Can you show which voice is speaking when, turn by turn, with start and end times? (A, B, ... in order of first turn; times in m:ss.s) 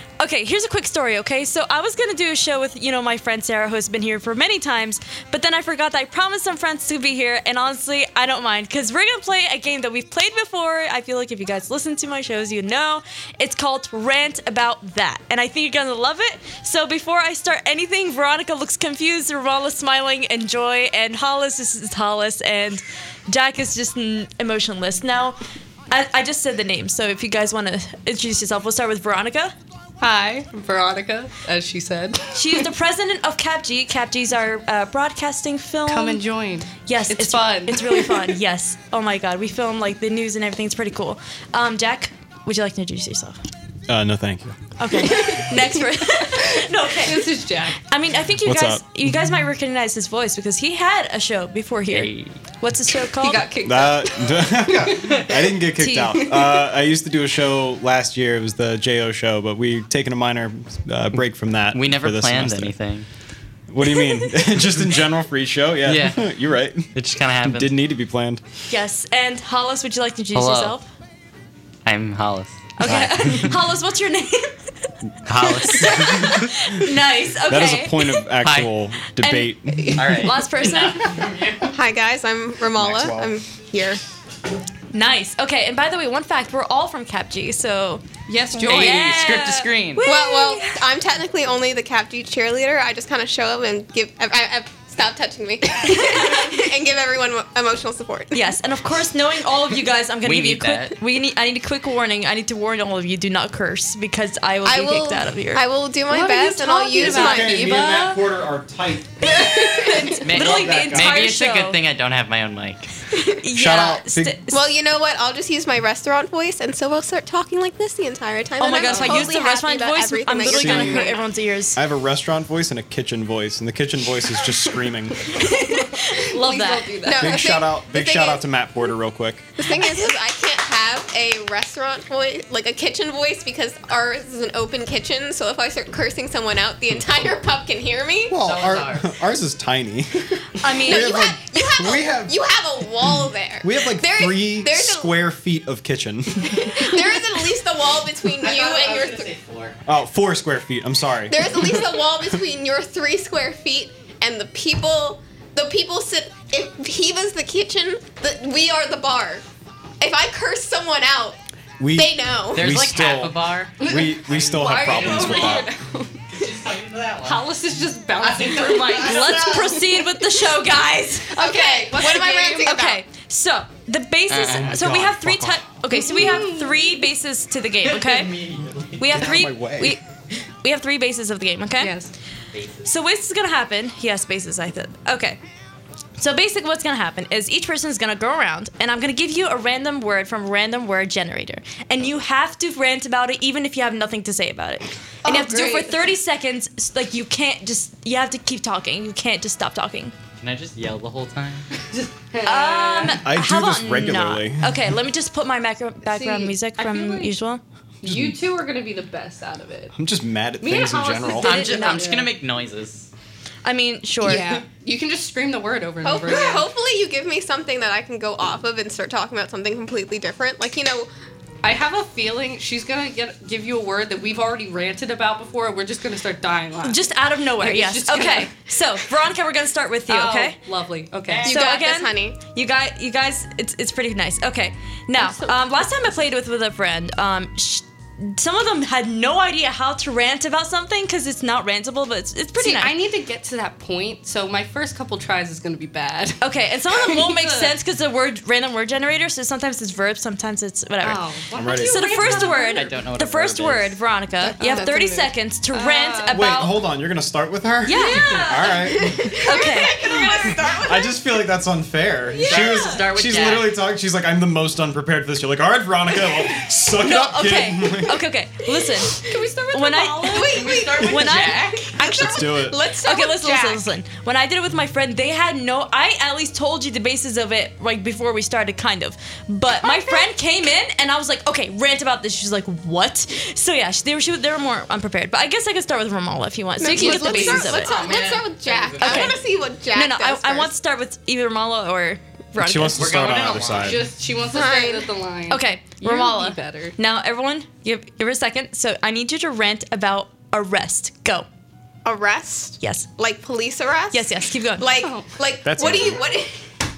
0:00.2-0:25.4 A
0:25.9-0:29.5 A
0:30.0-0:32.6 B
0:32.3-0:36.2 A
0:35.9-0:38.3 B
0:36.8-0:43.4 A
0:43.9-0:44.6 C
0:44.8-0:53.5 A
0:45.1-0:47.8 B
0:48.4-0:49.1 C
0:51.9-0:52.3 D
0:53.2-0:56.7 B
0:53.6-1:02.8 C
1:01.7-1:03.0 D
1:03.7-1:08.4 C
1:05.8-1:06.4 D
1:06.9-1:07.7 D
1:08.7-1:10.9 A
1:10.3-1:10.8 D
1:11.8-1:13.5 D
1:12.8-1:14.6 A
1:15.2-1:16.3 D
1:15.4-1:18.2 A
1:16.1-1:16.4 C
1:17.5-1:20.0 C
1:18.4-1:18.7 D
1:19.2-1:21.0 A
1:19.8-1:20.3 B
1:20.0-1:21.7 D
1:21.7-1:24.0 E
1:22.7-1:23.3 C
1:24.9-1:30.7 A
1:28.3-1:29.3 B
1:28.7-1:30.0 D
1:30.0-1:38.3 E
1:38.3-1:45.6 A
1:40.2-1:40.9 D
1:44.6-1:47.8 E
1:46.1-1:48.3 B
1:46.9-1:47.4 A
1:47.0-1:49.6 C
1:49.4-1:51.8 A
1:49.6-1:50.1 B
1:50.2-1:52.9 D
1:50.3-1:51.3 C
1:53.4-1:54.6 A
1:53.5-1:54.4 C
1:54.5-2:01.2 E
1:58.6-2:01.8 A
1:58.8-1:59.3 B
2:00.4-2:01.1 C
2:01.8-2:05.3 C
2:05.3-2:07.5 B
2:05.4-2:07.1 A
2:07.0-2:08.4 E
2:07.2-2:09.5 C
2:09.6-2:18.4 E
2:18.3-2:22.3 C
2:18.4-2:19.1 D
2:20.6-2:21.2 A
2:20.8-2:25.1 E
2:23.0-2:26.6 C
2:26.5-2:29.3 E
2:28.4-2:29.8 D
2:29.9-2:32.1 C
2:31.3-2:39.4 E
2:40.0-2:41.4 E
2:41.8-2:45.7 C
2:41.9-2:42.7 E
2:42.5-2:45.7 D
2:43.8-2:46.1 B
2:46.3-2:47.5 D
2:47.2-2:50.0 B
2:48.2-2:49.8 D
2:49.0-2:51.3 A
2:51.3-2:52.8 B
2:51.4-2:53.0 E
2:52.0-2:58.3 A
2:54.3-2:54.9 D
2:54.6-2:55.6 C
2:55.9-2:56.9 B
2:57.8-2:59.3 D
2:59.0-3:00.0 A
2:59.1-3:00.0 C
3:00.6-3:02.0 A
3:01.8-3:02.1 B
3:02.5-3:02.8 D
3:02.8-3:05.4 A
3:06.2-3:20.1 A
3:15.2-3:16.0 B
3:20.4-3:21.6 D
3:21.9-3:23.2 B
3:22.4-3:27.6 A
3:23.2-3:24.9 C
3:26.0-3:27.3 B
3:28.0-3:28.4 C
3:28.0-3:29.9 B
3:30.0-3:31.6 C
3:30.6-3:32.3 B
3:31.4-3:33.1 D
3:31.5-3:32.0 A
3:33.6-3:34.6 A
3:34.2-3:36.7 B
3:36.0-3:41.1 E
3:41.6-3:47.0 B
3:46.8-3:50.6 A
3:47.6-3:48.5 B
3:50.1-3:51.5 B
3:51.4-3:52.4 E
3:51.4-4:02.9 A
3:55.2-3:55.6 B
4:02.6-4:07.8 B
4:06.4-4:11.2 A
4:11.0-4:12.9 B
4:11.5-4:12.1 C
4:11.8-4:16.8 A
4:12.2-4:14.0 D
4:14.4-4:16.5 B
4:16.3-4:19.3 C
4:17.8-4:20.2 A
4:17.9-4:18.9 B
4:19.1-4:21.2 E
4:20.8-4:28.2 C
4:22.3-4:23.0 B
4:22.4-4:23.8 D
4:27.0-4:47.9 A
4:29.3-4:30.8 B
4:30.4-4:31.0 E
4:30.4-4:31.9 D
4:31.0-4:32.8 C
4:32.0-4:33.8 E
4:39.8-4:40.2 E
4:46.8-4:50.7 E
4:46.9-4:47.6 B
4:47.4-4:49.4 D
4:49.0-4:53.1 A
4:52.6-4:54.1 C
4:52.9-4:54.1 D
4:53.7-4:56.9 B
4:54.4-4:55.1 E
4:55.5-5:01.5 A
5:02.0-5:06.6 E
5:02.8-5:03.1 A
5:04.1-5:04.9 A
5:05.0-5:05.4 B
5:05.6-5:06.2 C